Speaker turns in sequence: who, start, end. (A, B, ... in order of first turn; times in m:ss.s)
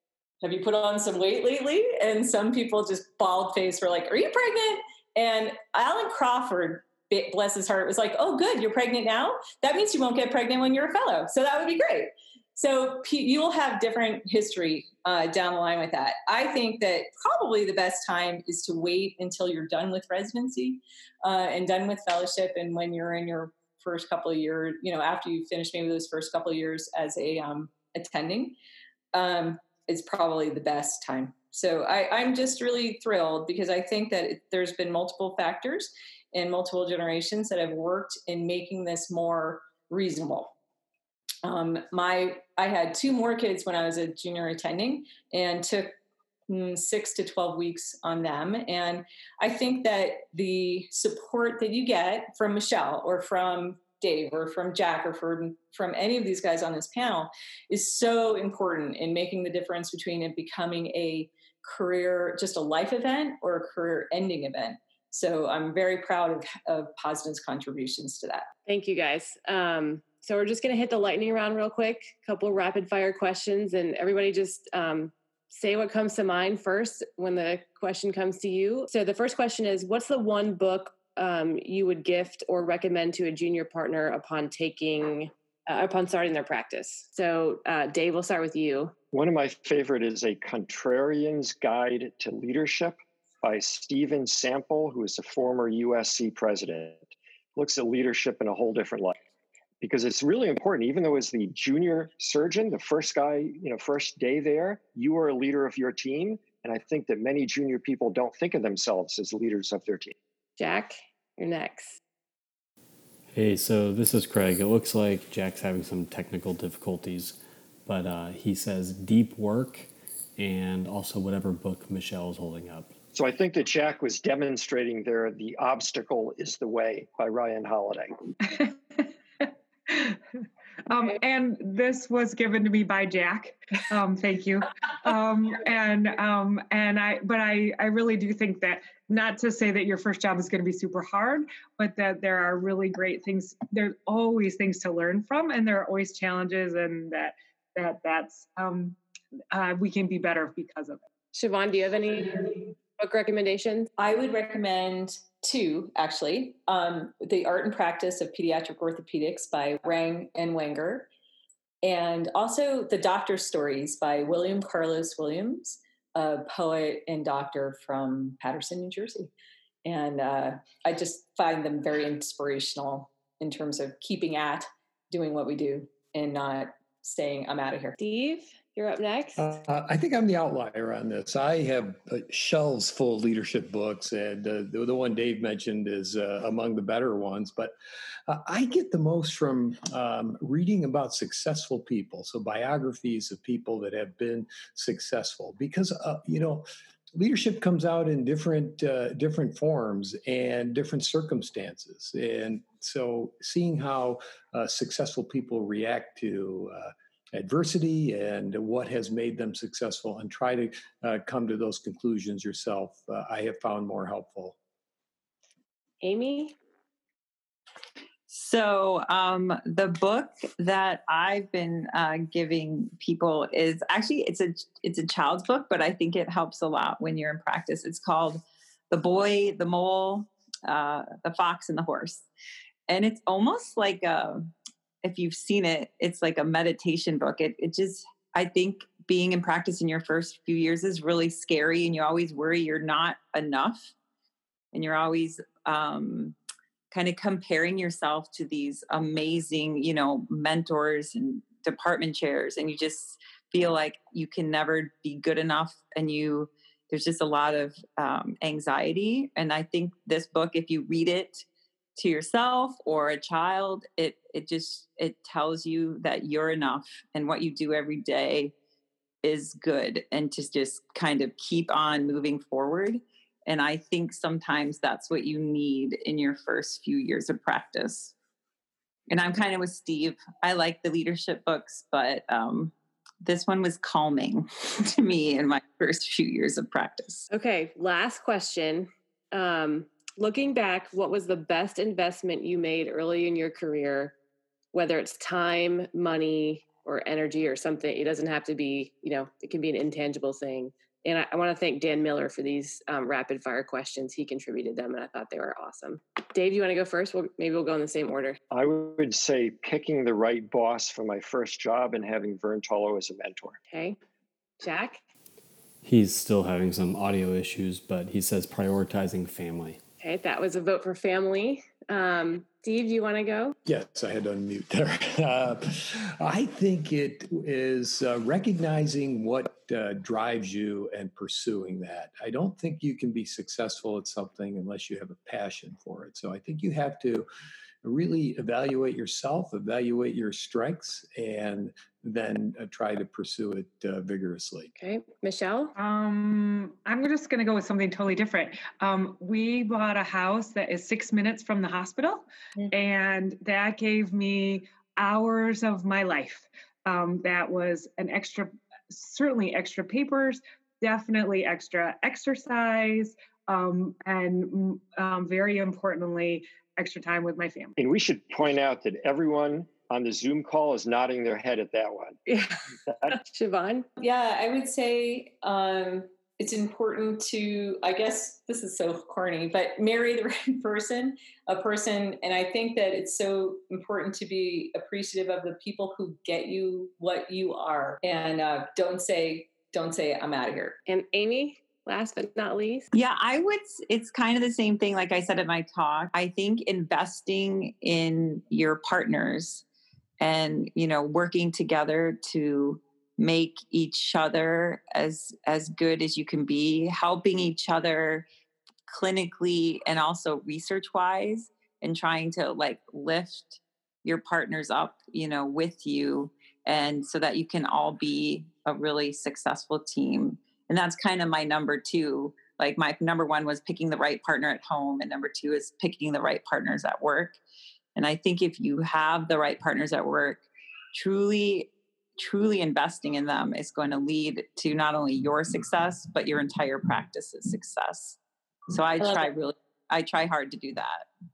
0:00.4-0:28.6 A
0:29.1-0:40.5 A
0:41.4-0:45.9 A
0:46.5-1:08.5 A
1:08.7-1:28.9 B
1:29.1-1:39.1 C
1:39.8-1:50.1 C
1:50.6-1:52.0 B
1:53.3-2:02.9 D
2:03.1-2:08.1 C
2:08.4-2:10.2 E
2:10.9-2:29.0 E
2:29.5-2:31.0 E
2:31.3-2:33.9 B
2:34.0-2:41.1 A
2:41.8-2:49.3 A
2:49.8-2:57.9 A
2:58.0-2:59.5 B
2:59.4-3:07.7 F
3:08.3-3:34.5 F
3:36.0-3:36.5 B
3:38.3-3:52.2 G
3:52.9-3:54.5 G
3:55.0-4:03.9 G
4:04.7-4:06.4 G
4:06.9-4:21.4 G
4:22.0-4:28.5 G
4:29.2-4:38.1 G
4:39.1-4:47.3 G
4:47.3-4:54.1 B
4:54.7-5:08.4 B
5:08.5-5:13.6 C
5:13.7-5:14.0 B
5:14.6-5:15.0 B
5:15.8-5:19.8 D
5:20.0-5:23.6 B
5:23.6-5:37.3 F
5:37.8-5:44.7 F
5:44.8-5:45.7 B
5:45.8-6:07.8 E
6:07.8-6:12.2 C
6:12.3-6:13.9 B
6:12.9-6:13.2 C
6:14.0-6:30.8 A
6:30.9-6:32.9 B
6:32.9-6:39.6 G
6:40.2-6:48.2 G
6:48.9-7:07.4 G
7:08.0-7:10.4 G
7:10.9-7:18.2 G
7:18.7-7:21.0 G